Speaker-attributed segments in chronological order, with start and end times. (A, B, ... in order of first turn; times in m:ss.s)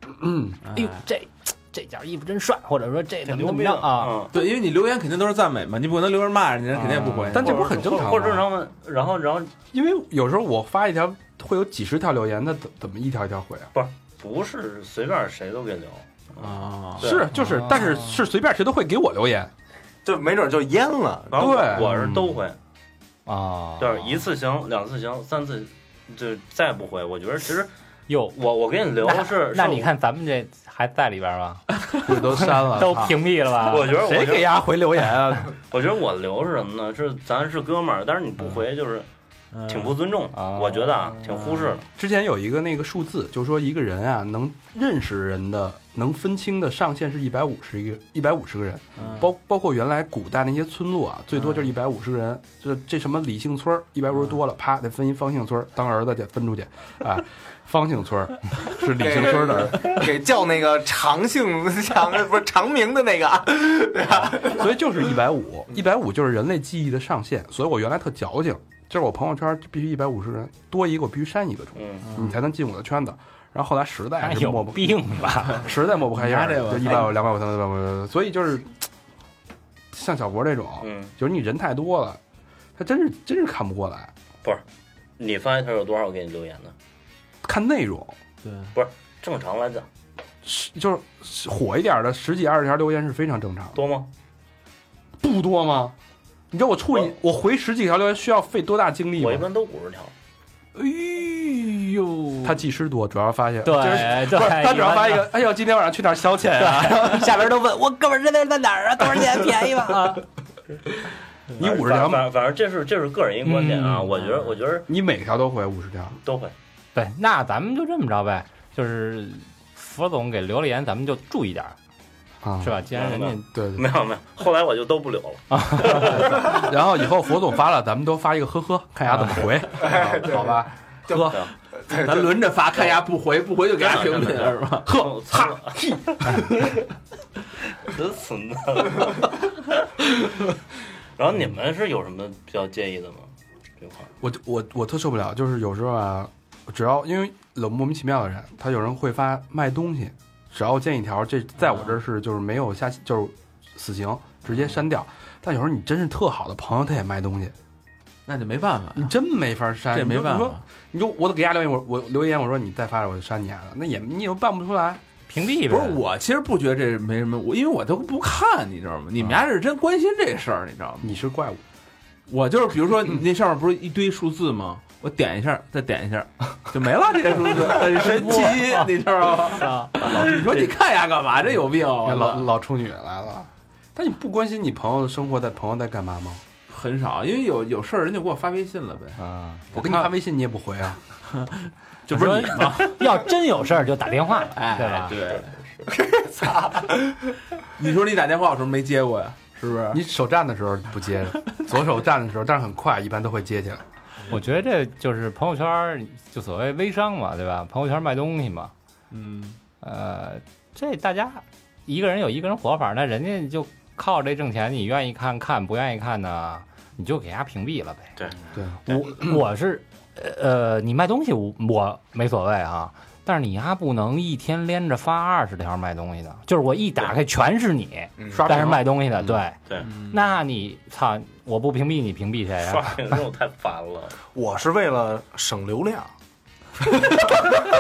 0:00.2-0:00.6 A
0:00.6-0:01.0 B
0:00.7-0:04.2 C
0:03.2-0:04.4 D
0:04.3-0:07.6 B
0:06.8-0:07.3 C
0:07.3-0:09.6 D
0:07.3-0:08.5 A
0:09.7-0:13.7 A
0:13.7-0:17.3 D
0:16.4-0:17.2 B
0:17.0-0:19.5 A
0:17.3-0:18.1 C
0:20.0-0:21.6 E
0:21.3-0:22.6 D
0:21.4-0:22.1 A
0:21.8-0:22.2 B
0:23.3-0:24.2 C
0:23.8-0:27.7 D
0:28.1-0:28.3 C
0:28.3-0:29.9 D
0:29.0-0:34.0 C
0:32.0-0:33.2 A
0:33.6-0:34.6 D
0:33.8-0:35.5 A
0:35.7-0:39.1 D
0:39.5-0:40.0 B
0:39.7-0:41.8 D
0:40.3-0:41.2 C
0:41.3-0:41.7 B
0:42.0-1:00.0 A
0:49.0-0:49.3 B
0:58.9-1:04.7 E
1:04.4-1:18.8 A
1:11.8-1:12.1 D
1:12.0-1:12.4 B
1:14.2-1:15.7 C
1:16.1-1:17.2 B
1:19.9-1:22.2 A
1:20.8-1:21.1 D
1:22.8-1:24.1 A
1:25.2-1:26.7 D
1:27.4-1:28.2 A
1:28.4-1:28.7 B
1:28.7-1:29.9 D
1:30.4-1:33.8 A
1:33.8-1:34.1 D
1:35.2-1:36.0 A
1:36.5-1:39.5 A
1:39.2-1:40.1 D
1:40.8-1:41.4 A
1:42.4-1:47.3 A
1:43.6-1:45.3 C
1:46.6-1:50.2 C
1:51.5-1:54.9 D
1:51.6-1:52.3 A
1:53.4-1:54.1 C
1:54.9-1:56.2 A
1:56.2-1:56.5 D
1:57.0-2:01.8 C
2:02.4-2:02.8 A
2:02.6-2:03.4 C
2:02.9-2:06.7 D
2:03.5-2:03.9 A
2:05.6-2:06.0 C
2:06.0-2:11.4 A
2:09.8-2:11.3 E
2:11.2-2:11.5 D
2:11.8-2:12.9 E
2:11.9-2:15.5 B
2:13.8-2:16.7 D
2:15.7-2:16.5 A
2:17.8-2:20.1 D
2:21.2-2:24.1 D
2:24.2-2:37.6 A
2:31.6-2:32.0 B
2:34.5-2:34.8 B
2:38.3-2:39.2 B
2:39.0-2:45.0 A
2:39.9-2:40.6 B
2:45.3-2:46.0 C
2:45.7-2:51.2 B
2:51.0-2:51.6 A
2:52.3-3:02.5 B
2:58.1-2:58.9 C
2:59.5-3:00.1 C
3:00.1-3:00.7 A
3:02.0-3:06.4 A
3:06.7-3:09.2 B
3:09.2-3:09.6 C
3:09.7-3:10.1 B
3:09.7-3:11.0 A
3:11.3-3:13.0 B
3:12.1-3:15.2 C
3:14.5-3:15.6 B
3:15.9-3:17.3 E
3:17.8-3:20.0 B
3:19.9-3:23.8 A
3:24.3-3:28.7 C
3:29.1-3:29.6 B
3:29.8-3:38.1 C
3:38.6-3:39.4 A
3:38.9-3:52.9 C
3:48.2-3:48.5 E
3:48.3-3:49.4 A
3:49.8-3:50.1 B
3:52.7-3:54.2 D
3:54.3-3:56.1 E
3:57.1-3:57.5 B